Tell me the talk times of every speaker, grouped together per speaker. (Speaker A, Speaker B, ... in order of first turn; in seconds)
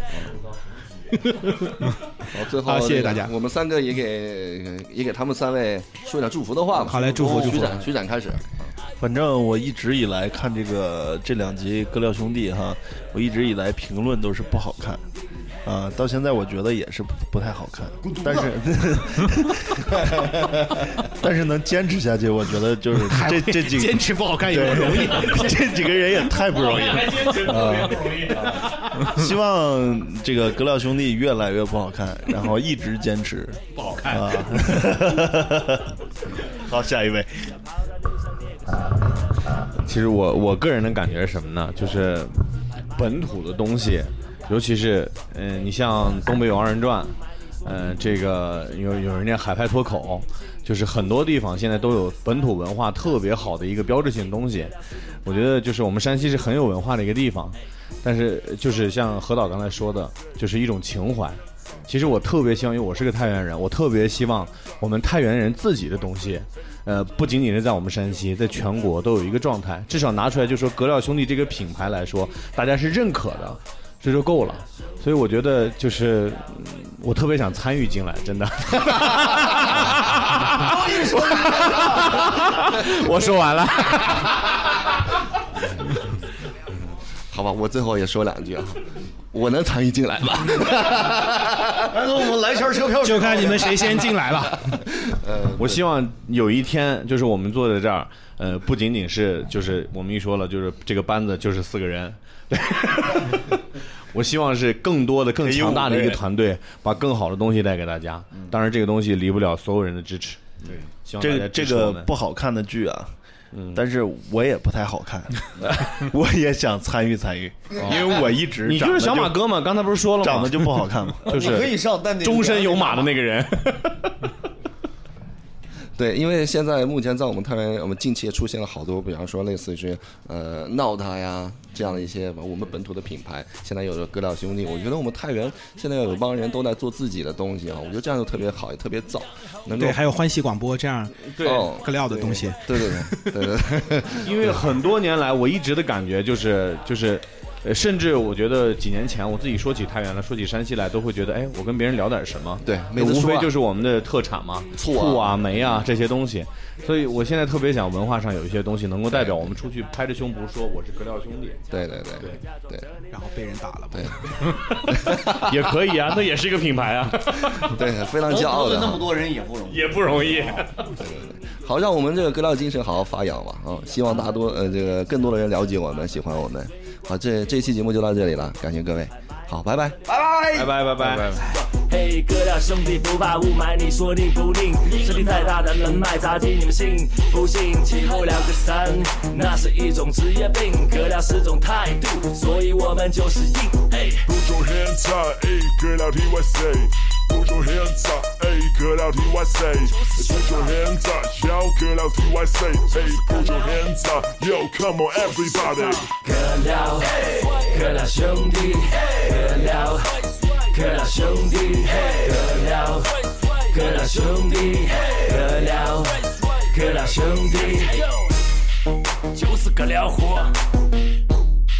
Speaker A: 1.1-3.3, 6.8-7.8, 23.0-25.6, 27.1-28.9, 33.8-34.2, 93.0-94.8, 139.7-143.5, 163.1-164.4
Speaker B: 2.3-8.7, 87.3-91.8, 95.0-95.8, 126.0-140.0, 141.4-144.5, 152.6-153.5, 154.8-155.6, 161.7-162.9, 164.9-165.4, 167.6-169.1, 171.0-180.0
Speaker C: 9.0-15.0, 15.7-35.8, 36.5-37.3, 105.4-106.2, 110.7-113.1, 113.7-119.5, 120.2-121.3
Speaker D: 39.8-42.4, 43.0-54.7, 55.2-84.5, 95.6-103.6, 104.1-112.1, 113.5-113.8, 117.8-124.2, 141.3-141.7, 144.2-161.6, 164.7-167.8, 169.7-170.9, 180.6-181.4
Speaker E: 80.6-82.1, 91.8-94.0, 121.3-123.2, 168.3-170.7, 180.1-181.3
Speaker F: 181.5-194.3, 199.9-200.7, 202.9-203.7, 205.2-218.3, 219.3-220.6
Speaker G: 194.3-206.1